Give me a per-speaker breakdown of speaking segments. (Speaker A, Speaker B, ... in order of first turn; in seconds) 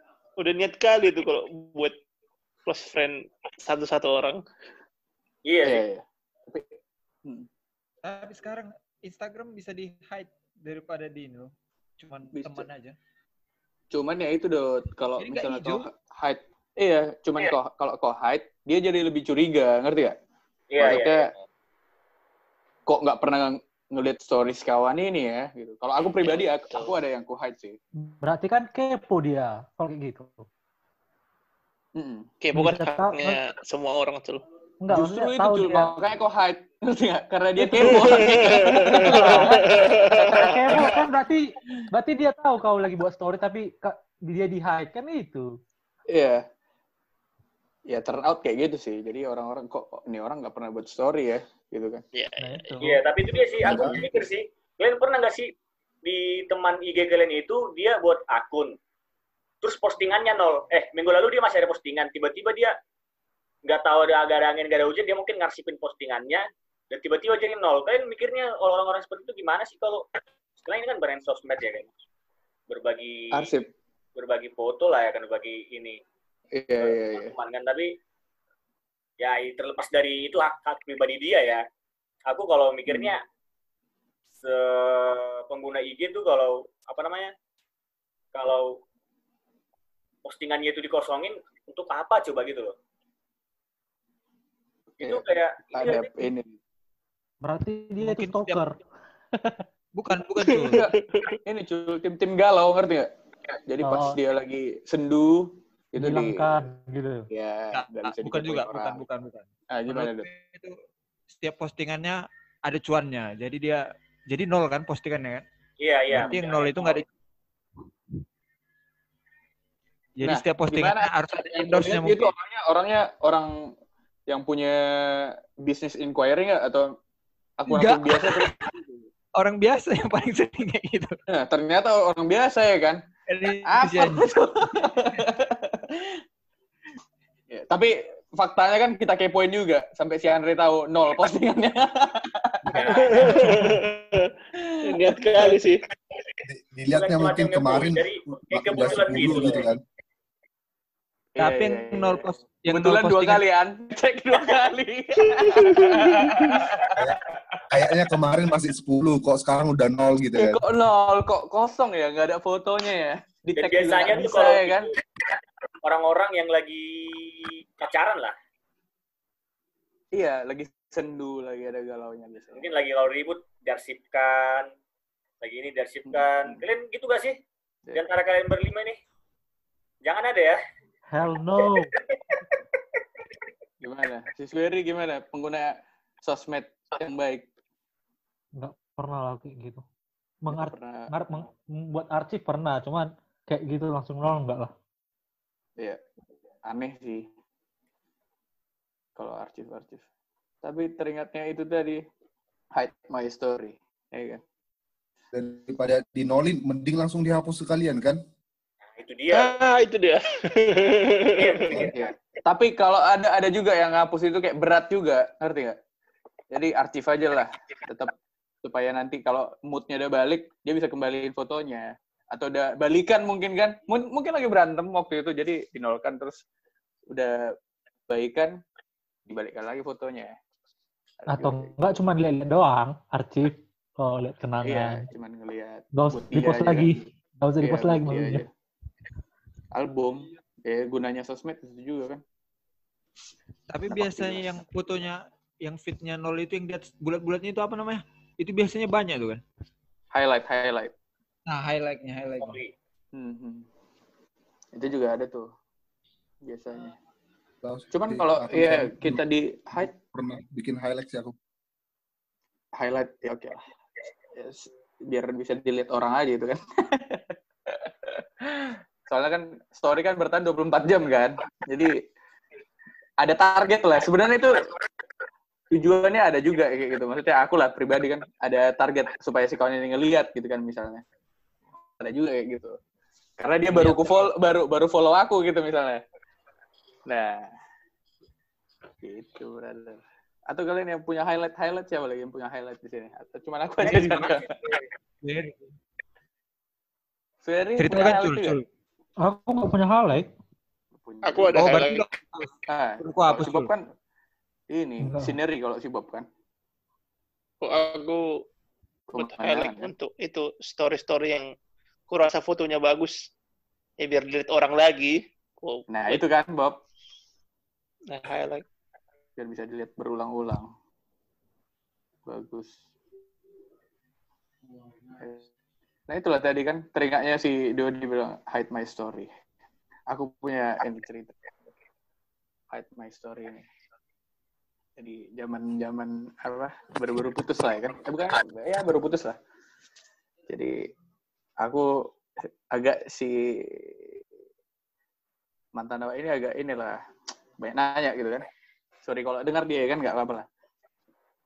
Speaker A: 0.4-2.0, 2.6-4.4, 26.3-26.9, 32.4-34.4, 37.8-41.0, 52.1-52.9, 100.6-101.4, 143.1-144.3, 144.8-145.8, 155.4-156.5, 209.3-211.8, 301.2-302.1, 307.6-308.4, 309.1-311.5, 312.1-313.3, 314.0-316.2, 318.1-318.6
Speaker B: 5.4-5.8, 20.7-21.3, 52.8-55.5, 56.0-58.8, 59.6-62.8, 63.6-70.1, 70.6-71.8, 72.7-73.5, 74.2-76.0, 76.8-78.0, 79.2-81.6, 82.3-83.2, 84.4-87.3, 88.3-88.8, 90.2-92.7, 95.0-96.1, 115.8-117.0, 142.7-143.3, 146.9-149.7, 163.6-164.9, 165.8-168.3, 172.5-174.7, 175.4-177.3, 177.9-179.0, 180.0-180.6, 209.0-209.6, 211.4-211.9, 252.4-252.7, 293.8-294.8
Speaker C: 5.6-7.5, 12.3-12.7, 13.9-20.1, 20.8-21.3, 22.9-27.8, 31.9-32.3, 34.9-39.6, 40.3-40.9, 46.1-46.4, 47.9-52.0, 73.3-73.7, 76.5-77.3, 82.9-83.1, 95.0-96.6, 100.7-100.9, 101.5-103.1, 103.7-106.5, 107.3-109.0, 109.7-110.3, 116.1-116.4, 120.2-123.7, 124.3-126.9, 127.6-129.0, 131.3-133.0, 133.6-136.2, 137.5-143.6, 148.8-149.6, 151.3-157.0, 160.3-165.0, 170.1-172.6, 176.0-176.6, 183.8-187.5, 190.5-191.1, 196.6-197.3, 199.2-200.0, 200.6-202.0, 202.7-204.4, 211.9-215.8, 216.5-226.4, 227.1-227.4, 228.1-228.6, 229.2-230.3, 231.2-231.8, 234.6-237.0, 237.6-238.5, 239.7-242.2, 243.9-244.6, 250.1-250.9, 253.1-253.7, 254.7-255.5, 256.4-256.9, 257.9-259.9, 262.8-263.6, 264.3-272.0, 273.2-274.7, 275.7-281.0, 282.0-282.8, 283.4-286.0, 287.1-287.5, 289.0-294.6, 297.4-298.6, 300.9-301.5, 302.7-303.9, 304.7-306.2, 309.1-309.9, 315.9-316.8, 319.4-320.7, 322.2-322.8, 325.2-325.5, 326.1-329.3, 330.1-331.5, 332.7-333.7, 335.0-339.4, 340.5-340.8, 341.6-344.2, 345.7-347.0, 347.6-348.5, 349.0-350.5
Speaker D: 8.0-12.9, 15.2-15.9, 98.0-98.6, 99.9-100.8, 107.7-110.8, 111.3-115.4, 116.2-117.1, 120.2-122.3, 127.7-128.8, 129.3-131.2, 133.3-134.9, 151.4-153.4, 243.7-249.4, 251.5-252.6, 295.2-295.7, 297.8-298.6, 301.5-303.7
Speaker E: 28.0-30.5, 32.5-33.4, 34.8-36.0, 37.6-45.5, 52.4-53.0, 97.4-98.8, 103.8-104.2, 106.0-107.3, 143.4-143.7, 181.1-181.9, 188.6-189.8, 190.4-194.7, 231.3-235.1, 235.9-238.4, 299.2-300.3, 305.0-305.4
Speaker F: 53.6-54.1, 146.4-149.8, 157.7-160.6, 205.3-208.2, 257.6-259.2, 259.8-261.3